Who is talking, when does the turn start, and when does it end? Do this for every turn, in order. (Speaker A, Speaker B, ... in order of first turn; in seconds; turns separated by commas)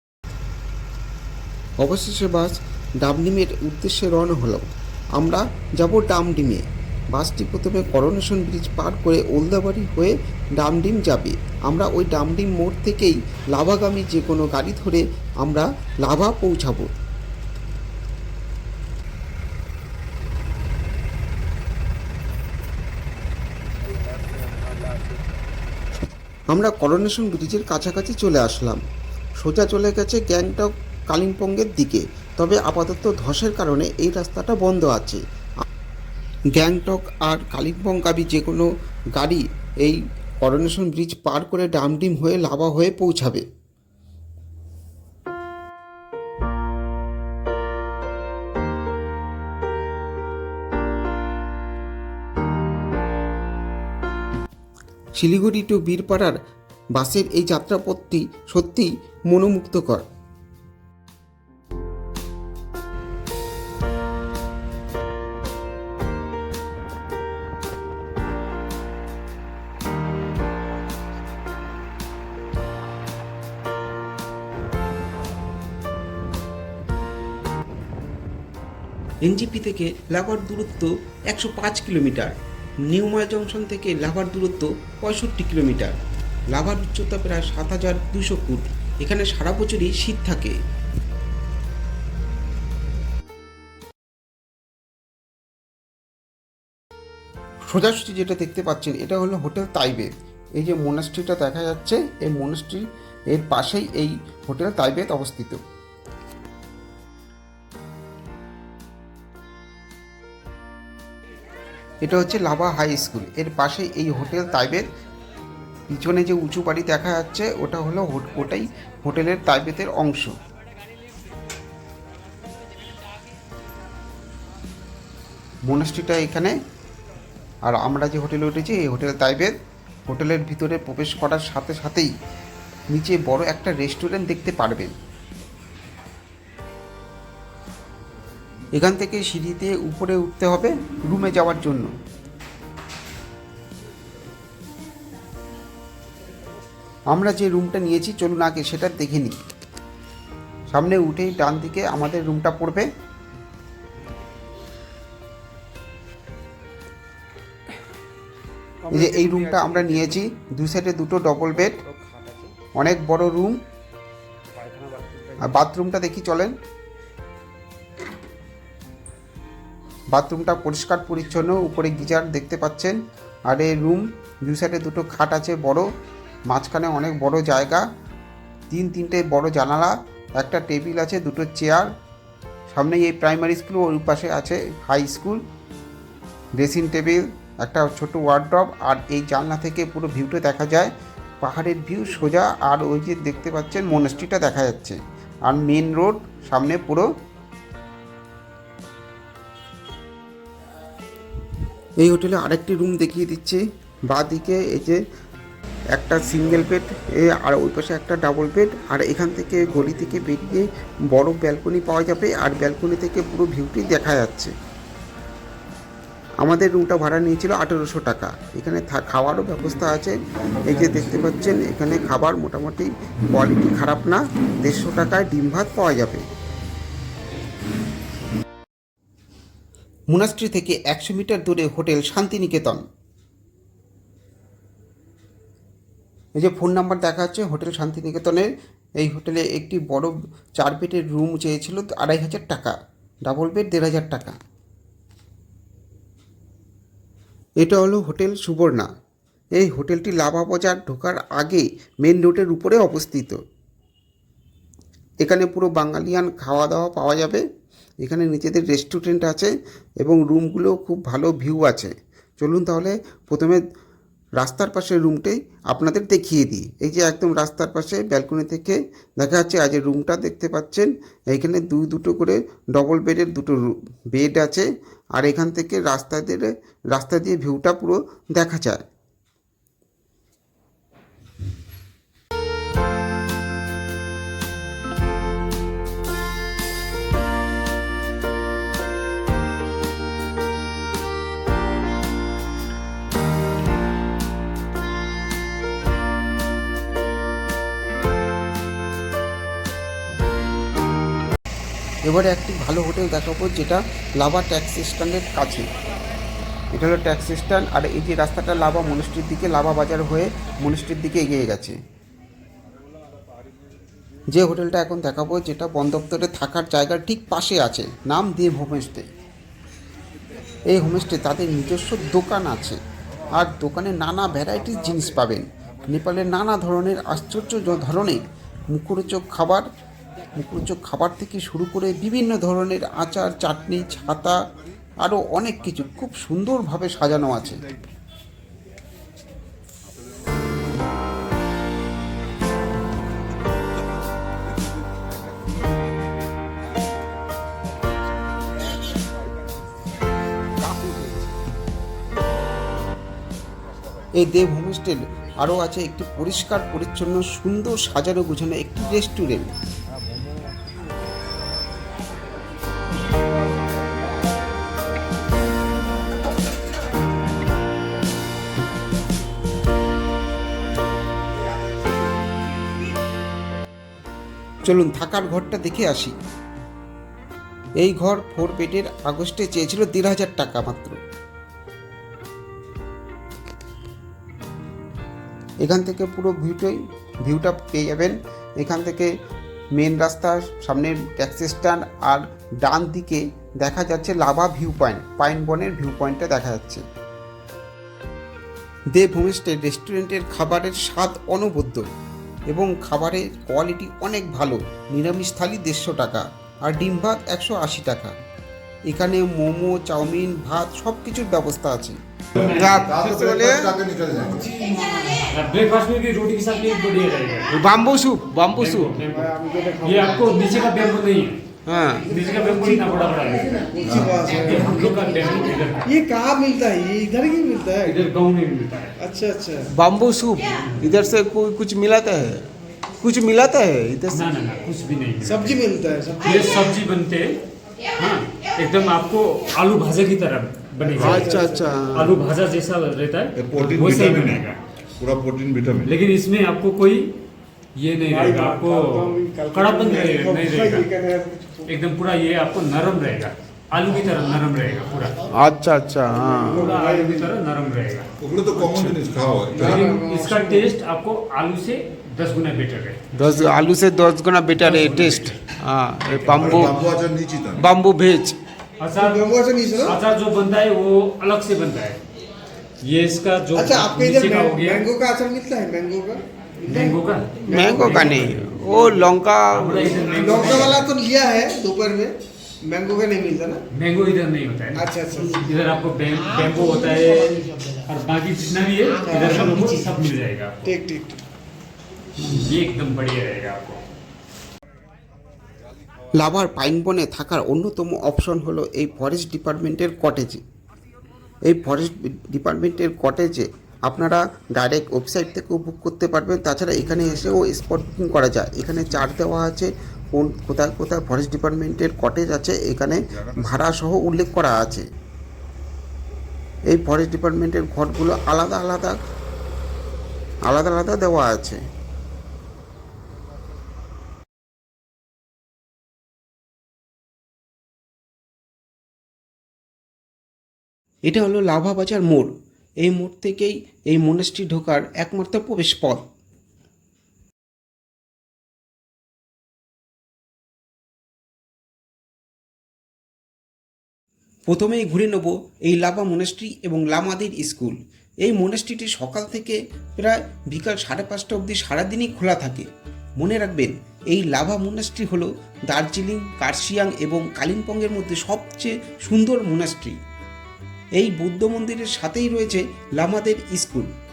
Speaker A: 1.8-16.9, Speaker A: 26.5-28.8, Speaker A: 29.4-35.2, Speaker A: 36.6-43.5, Speaker A: 55.2-56.4, Speaker A: 57.0-60.1, Speaker A: 79.2-82.3, Speaker A: 82.9-86.0, Speaker A: 86.5-90.6, Speaker A: 97.7-105.6, Speaker A: 112.0-114.8, Speaker A: 115.9-120.3, Speaker A: 125.7-126.6, Speaker A: 127.7-129.6, Speaker A: 130.1-132.1, Speaker A: 132.9-134.9, Speaker A: 138.8-141.9, Speaker A: 147.1-149.4, Speaker A: 150.7-152.9, Speaker A: 158.9-161.8, Speaker B: 162.0-162.4, Speaker A: 162.7-163.6, Speaker B: 164.6-165.4, Speaker A: 165.4-166.6, Speaker A: 170.1-175.9, Speaker A: 176.5-177.8, Speaker A: 178.7-181.9, Speaker A: 182.7-185.4, Speaker A: 186.6-197.1, Speaker A: 202.0-205.0, Speaker A: 205.9-214.5, Speaker A: 216.4-226.2, Speaker A: 230.1-232.8, Speaker A: 236.4-244.4, Speaker A: 247.6-248.9, Speaker A: 249.6-253.4, Speaker A: 255.2-257.4, Speaker A: 258.0-263.6, Speaker A: 264.4-278.8, Speaker A: 302.1-305.7, Speaker A: 306.7-311.8, Speaker A: 314.3-319.1, Speaker A: 320.7-322.8, Speaker A: 323.4-329.7, Speaker A: 330.4-334.4, Speaker A: 335.0-337.6, Speaker A: 354.2-359.5, Speaker A: 374.7-376.2, Speaker A: 377.8-381.0, Speaker A: 385.6-389.1, Speaker A: 389.8-396.8, Speaker A: 398.9-401.8, Speaker A: 402.5-408.1, Speaker A: 408.9-413.7, Speaker C: 412.4-414.5, Speaker B: 415.0-417.9, Speaker A: 417.5-418.9, Speaker B: 418.5-421.4, Speaker D: 418.9-420.3, Speaker A: 421.7-422.1, Speaker B: 422.0-426.0, Speaker D: 422.4-425.0, Speaker C: 423.9-424.1, Speaker D: 425.9-428.0, Speaker B: 427.8-429.0, Speaker D: 429.0-429.7, Speaker A: 429.7-432.4, Speaker B: 430.5-430.9, Speaker A: 433.0-434.3, Speaker B: 434.1-435.6, Speaker D: 435.2-436.6, Speaker B: 436.2-437.4, Speaker B: 438.0-444.6, Speaker D: 440.8-441.8, Speaker A: 441.0-442.2, Speaker C: 443.4-444.4, Speaker C: 445.0-445.9, Speaker B: 445.8-447.1, Speaker B: 447.8-450.9, Speaker D: 448.1-451.7, Speaker B: 451.6-455.3, Speaker A: 455.3-456.8, Speaker D: 456.3-457.3, Speaker B: 456.6-458.1, Speaker C: 458.2-459.9, Speaker A: 458.6-459.0, Speaker B: 459.6-463.0, Speaker D: 459.6-460.7, Speaker A: 463.2-466.8, Speaker B: 464.6-466.5, Speaker C: 466.3-467.6, Speaker A: 467.6-468.4, Speaker B: 468.8-472.0, Speaker D: 469.0-470.0, Speaker B: 472.8-474.8, Speaker D: 473.5-477.0, Speaker B: 476.6-478.8, Speaker D: 477.5-478.0, Speaker A: 477.5-480.2, Speaker B: 479.5-481.0, Speaker D: 480.1-483.6, Speaker B: 483.7-490.8, Speaker D: 484.8-485.5, Speaker D: 489.1-489.9, Speaker D: 490.6-491.2, Speaker B: 492.2-493.8, Speaker A: 496.2-500.4, Speaker A: 501.5-514.9, Speaker A: 516.7-519.0, Speaker A: 520.5-521.6, Speaker A: 531.1-536.0, Speaker A: 544.5-560.0, Speaker A: 561.0-563.9